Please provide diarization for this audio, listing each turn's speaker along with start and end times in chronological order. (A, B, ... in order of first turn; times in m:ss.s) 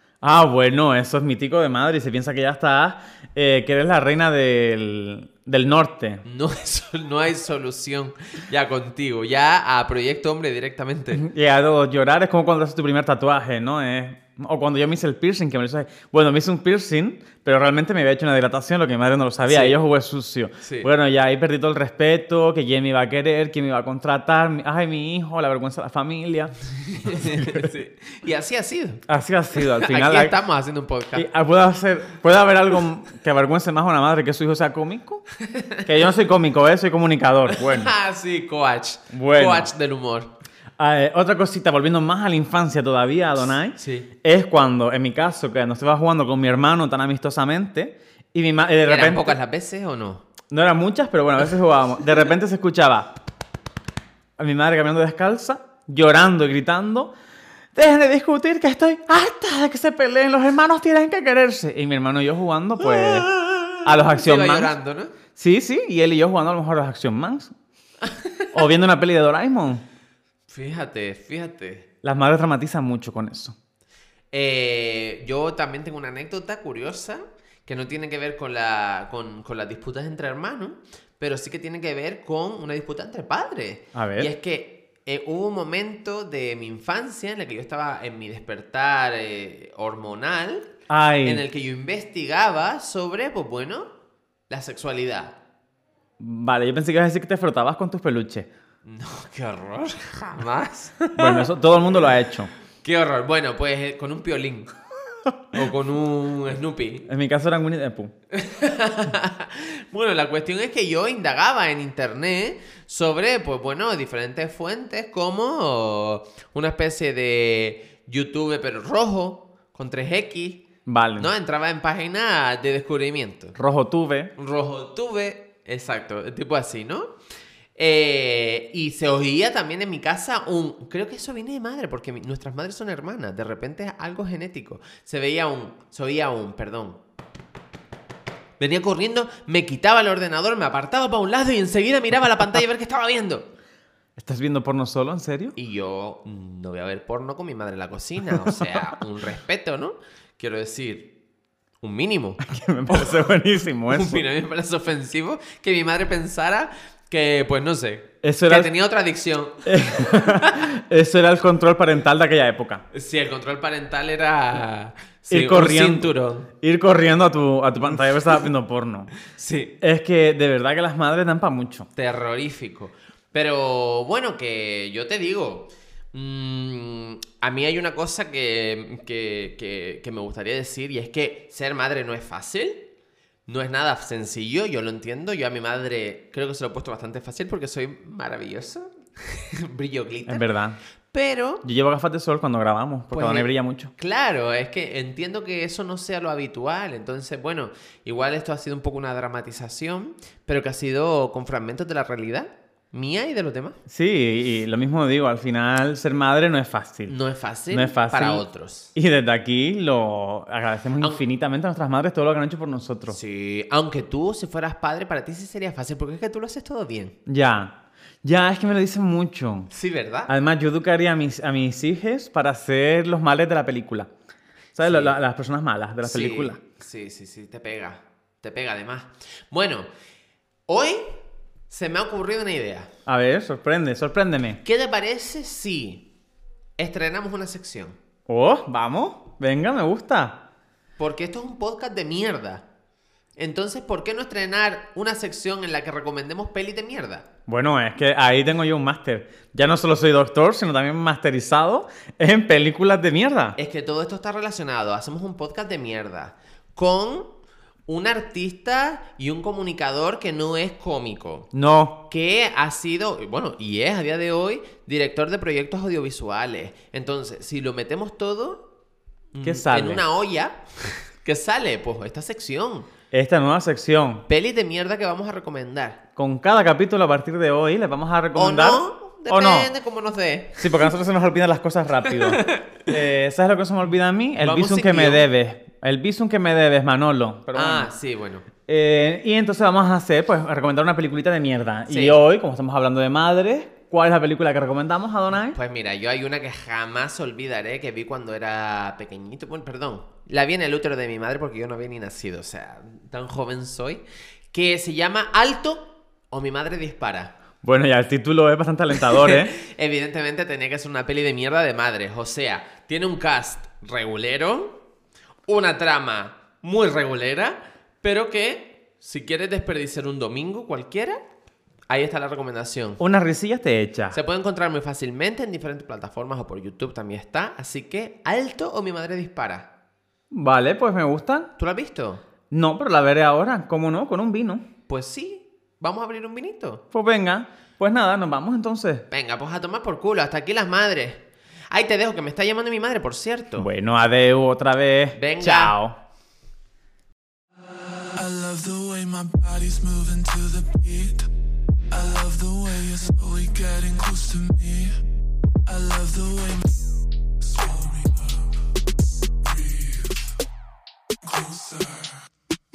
0:00.2-0:06.2 A
0:06.2-0:11.2 B
0:11.1-0:27.7 A
0:19.5-0:19.8 B
0:20.6-0:20.9 B
0:26.9-0:29.0 B
0:29.1-0:30.4 A
0:29.6-0:31.3 B
0:31.1-0:35.2 A
0:35.4-0:35.8 B
0:35.8-0:37.9 A
0:37.5-0:40.3 B
0:39.1-0:39.7 A
0:40.8-0:49.4 A
0:43.8-0:44.1 B
0:48.9-0:50.2 B
0:50.5-0:53.1 A
0:54.4-0:57.1 A
0:57.8-1:04.8 A
1:02.8-1:05.1 B
1:05.4-1:07.5 A
1:08.0-1:08.5 B
1:08.5-1:09.8 A
1:10.5-1:11.9 B
1:12.0-1:13.6 A
1:14.3-1:30.7 B
1:23.9-1:24.3 A
1:30.9-1:31.4 A
1:31.2-1:33.9 B
1:34.5-1:35.4 B
1:36.2-1:38.5 A
1:38.8-1:42.1 B
1:41.2-1:42.5 A
1:42.8-1:44.7 B
1:45.5-1:47.1 B
1:47.1-1:48.1 A
1:48.3-2:00.6 B
2:00.9-2:01.3 A
2:01.2-2:03.6 B
2:03.6-2:04.3 A
2:04.4-2:07.1 B
2:07.8-2:17.0 B
2:18.6-2:23.5 B
2:24.2-2:25.6 A
2:25.6-2:31.1 B
2:31.8-2:33.3 B
2:32.4-2:34.2 A
2:33.9-2:40.7 B
2:38.2-2:38.7 A
2:39.7-2:42.8 A
2:42.9-2:46.5 B
2:45.3-2:49.1 A
2:49.3-2:49.7 B
2:49.8-2:51.9 A
2:52.0-3:02.8 B
3:03.5-3:10.5 B
3:10.3-3:10.8 A
3:11.1-3:11.6 B
3:11.6-3:13.9 A
3:13.1-3:23.8 B
3:23.9-3:27.1 A
3:27.1-3:28.9 B
3:27.7-3:28.4 A
3:29.0-3:33.2 A
3:33.1-3:37.2 B
3:37.3-3:39.7 A
3:39.7-3:40.3 B
3:40.3-3:44.1 A
3:44.8-3:46.6 A
3:44.8-3:45.2 B
3:46.0-3:49.9 B
3:50.7-3:51.2 B
3:51.7-3:52.9 B
3:53.1-3:54.6 A
3:54.6-3:56.1 B
3:56.8-3:58.0 B
3:58.3-4:00.4 A
4:01.0-4:02.6 B
4:03.4-4:07.3 B
4:07.5-4:13.6 A
4:13.6-4:17.3 B
4:17.9-4:21.5 B
4:21.5-4:22.0 A
4:22.1-4:28.6 B
4:29.3-4:32.9 B
4:29.4-4:30.0 A
4:33.1-4:34.3 A
4:34.3-4:36.0 B
4:36.2-4:39.7 A
4:38.4-4:40.9 B
4:40.6-4:47.9 A
4:42.0-4:42.9 B
4:44.4-4:45.3 B
4:47.5-4:48.5 B
4:48.7-4:55.6 A
4:51.9-4:52.2 B
4:55.5-5:07.4 B
5:07.6-5:09.6 A
5:08.9-5:14.8 B
5:15.5-5:21.2 B
5:21.9-5:23.0 B
5:23.0-5:24.2 A
5:24.1-5:29.7 B
5:30.3-5:31.5 A
5:31.6-5:32.2 B
5:32.5-5:34.6 A
5:34.9-5:36.8 B
5:36.9-5:39.0 A
5:39.1-5:43.7 B
5:43.6-5:46.0 A
5:45.2-5:45.8 B
5:47.6-5:51.3 C
5:51.9-5:55.0 C
5:55.7-5:56.6 C
5:57.4-5:58.6 C
5:59.4-6:00.3 C
6:01.2-6:02.2 C